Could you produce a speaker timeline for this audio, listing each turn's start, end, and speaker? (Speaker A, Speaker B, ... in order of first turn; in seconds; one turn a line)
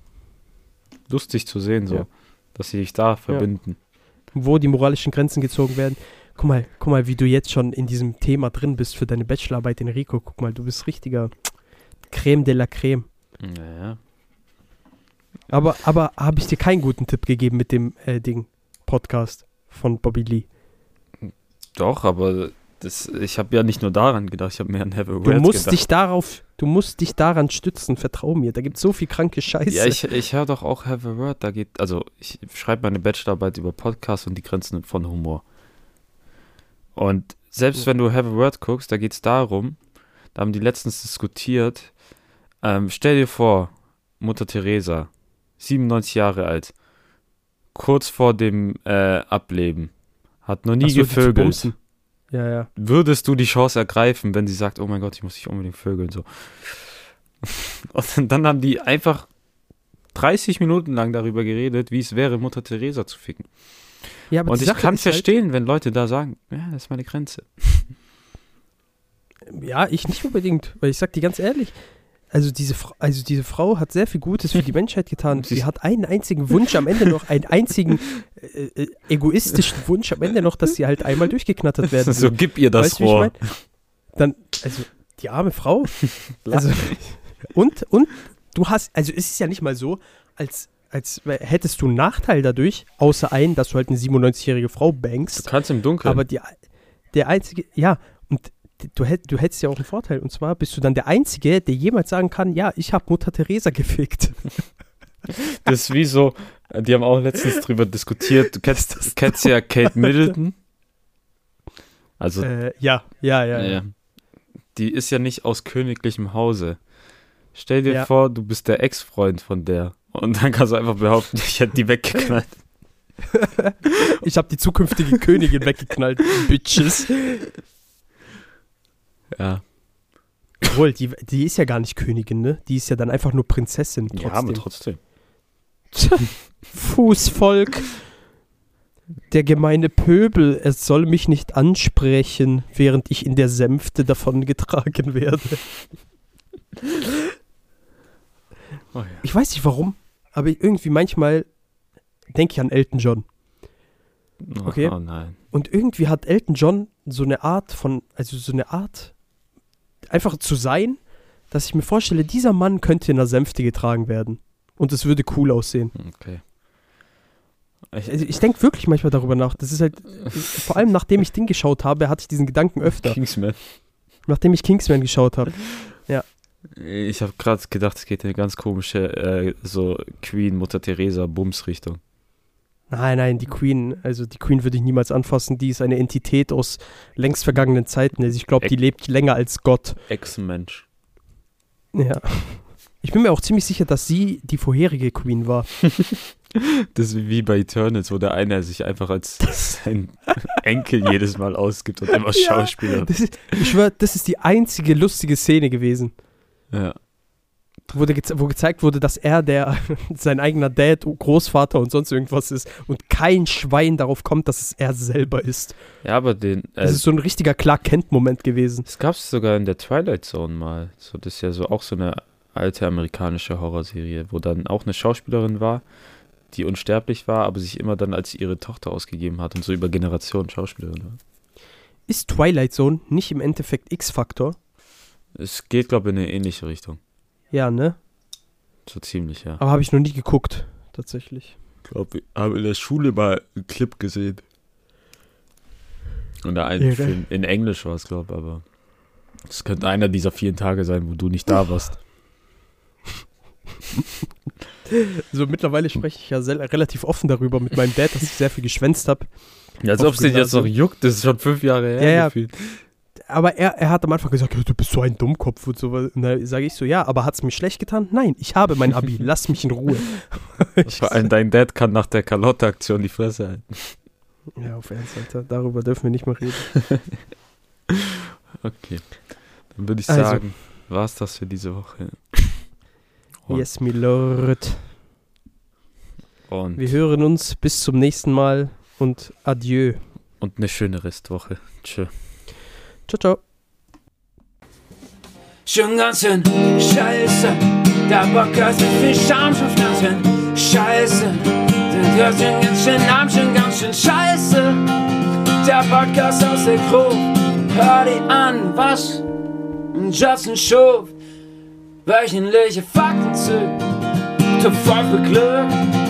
Speaker A: 1.1-3.8
Speaker B: 4.3-11.3
Speaker B: 12.1-13.1
Speaker A: 13.4-14.0
Speaker B: 15.5-20.5
Speaker A: 21.2-25.8
Speaker B: 25.2-30.0
Speaker A: 29.7-35.4
Speaker A: 37.0-39.8
Speaker A: 40.3-41.9
Speaker A: 42.6-45.1
Speaker A: 45.6-46.7
Speaker A: 47.7-49.9
Speaker A: 50.4-51.7
Speaker B: 50.8-51.8
Speaker B: 52.3-52.7
Speaker A: 52.8-59.3
Speaker A: 60.1-63.5
Speaker B: 64.3-65.3
Speaker A: 64.5-67.9
Speaker B: 69.5-71.8
Speaker B: 72.3-83.4
Speaker A: 75.3-75.6
Speaker A: 81.9-83.5
Speaker B: 84.2-95.5
Speaker A: 86.4-87.0
Speaker A: 95.3-96.2
Speaker B: 96.0-96.5
Speaker B: 97.1-104.5
Speaker A: 105.3-110.5
Speaker B: 108.8-109.5
Speaker A: 112.2-112.5
Speaker B: 112.4-113.8
Speaker A: 113.5-113.9
Speaker A: 114.7-116.8
Speaker A: 117.5-122.5
Speaker B: 123.3-127.5
Speaker A: 129.3-129.6
Speaker B: 130.6-134.7
Speaker A: 134.1-135.0
Speaker B: 135.9-138.0
Speaker B: 139.3-145.7
Speaker A: 148.9-149.2
Speaker B: 149.2-151.5
Speaker B: 152.3-153.2
Speaker A: 154.4-155.3
Speaker B: 154.6-154.9
Speaker B: 155.5-159.1
Speaker B: 160.1-161.0
Speaker B: 161.5-165.9
Speaker A: 165.9-166.4
Speaker A: 167.9-168.2
Speaker B: 168.1-173.2
Speaker A: 172.8-173.6
Speaker B: 174.3-176.2
Speaker A: 176.7-182.0
Speaker B: 182.9-190.0
Speaker A: 190.1-190.8
Speaker B: 191.9-195.7
Speaker A: 195.9-203.7
Speaker B: 202.3-206.1
Speaker A: 206.7-207.0
Speaker B: 207.9-215.8
Speaker A: 216.0-217.0
Speaker B: 216.8-218.8
Speaker A: 218.8-225.8
Speaker A: 226.5-231.2
Speaker B: 232.1-234.6
Speaker A: 235.4-237.0
Speaker B: 237.5-238.0
Speaker A: 238.8-239.6
Speaker B: 239.6-241.5
Speaker A: 241.9-244.4
Speaker A: 246.4-248.6
Speaker B: 246.8-247.2
Speaker A: 249.5-252.0
Speaker B: 254.9-259.3
Speaker A: 259.8-262.8
Speaker B: 259.9-260.7
Speaker B: 262.0-262.3
Speaker B: 263.3-271.3
Speaker A: 270.9-273.9
Speaker B: 274.6-276.7
Speaker A: 277.9-279.1
Speaker A: 279.7-282.5
Speaker B: 280.1-280.4
Speaker B: 283.5-284.9
Speaker A: 286.5-286.9
Speaker B: 286.8-290.0
Speaker A: 290.4-292.1
Speaker B: 293.1-293.4
Speaker C: 295.6-304.9
Speaker C: 305.6-309.2
Speaker C: 309.9-311.1
Speaker C: 312.1-313.8
Speaker C: 314.6-315.7